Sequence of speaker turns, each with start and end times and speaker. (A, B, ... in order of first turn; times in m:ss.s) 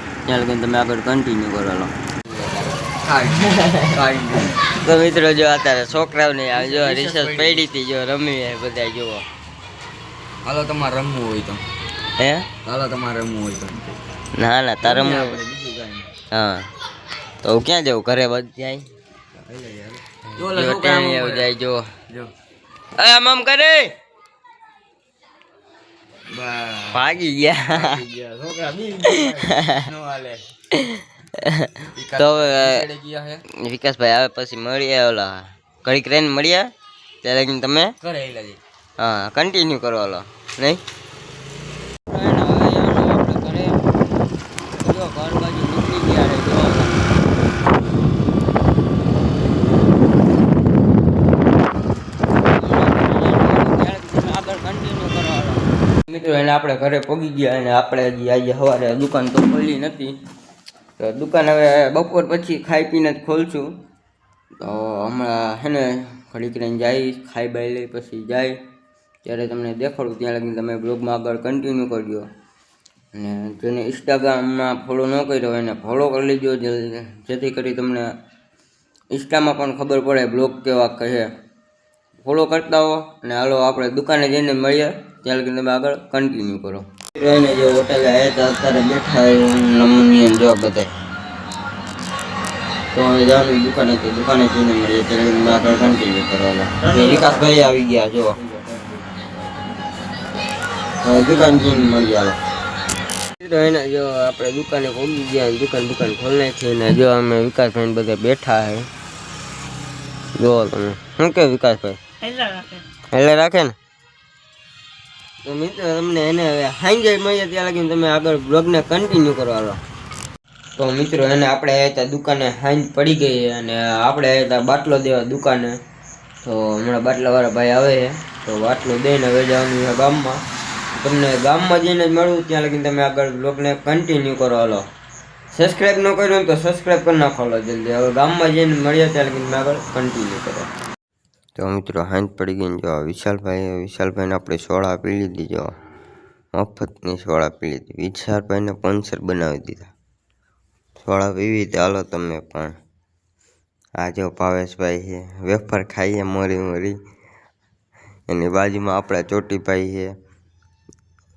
0:00.3-0:02.5 A
0:02.9-0:04.7 B
0:03.5-0:03.9 A
0:04.7-0:09.2 A
0:06.5-0:07.7 B
0:10.4-0:11.6 B
0:12.2-0:12.5 A
0:12.6-0:14.0 B
0:14.3-0:15.4 A
0:14.8-0:16.1 B
0:16.3-0:16.7 A
0:17.4-0:18.9 A
0:19.4-0:21.5 B
0:20.4-0:21.9 A
0:23.0-0:23.9 A
0:26.3-0:27.1 B
0:26.9-0:28.0 A
0:27.7-0:30.4 B
0:29.0-0:29.9 A
0:30.7-0:32.8 A
0:31.9-0:33.4 B
0:33.5-0:36.7 A
0:37.2-0:37.9 A
0:38.0-0:38.6 B
0:39.0-0:40.8 A
0:42.1-0:43.8 A
0:44.8-0:47.0 A
0:52.5-1:00.2 A
1:01.0-1:03.7 A
1:04.6-1:08.6 A
1:09.2-1:12.3 A
1:13.1-1:18.1 A
1:19.1-1:21.3 A
1:22.2-1:30.9 A
1:32.9-1:38.4 A
1:41.0-1:42.4 A
1:43.4-1:48.9 A
1:50.4-1:53.8 A
1:55.4-1:59.8 A
2:00.8-2:05.8 A
2:06.4-2:10.4 A
2:11.0-2:14.9 A
2:15.5-2:20.7 A
2:21.6-2:25.7 A
2:26.6-2:29.9 A
2:31.0-2:32.8 A
2:34.0-2:37.0 A
2:38.3-2:40.1 A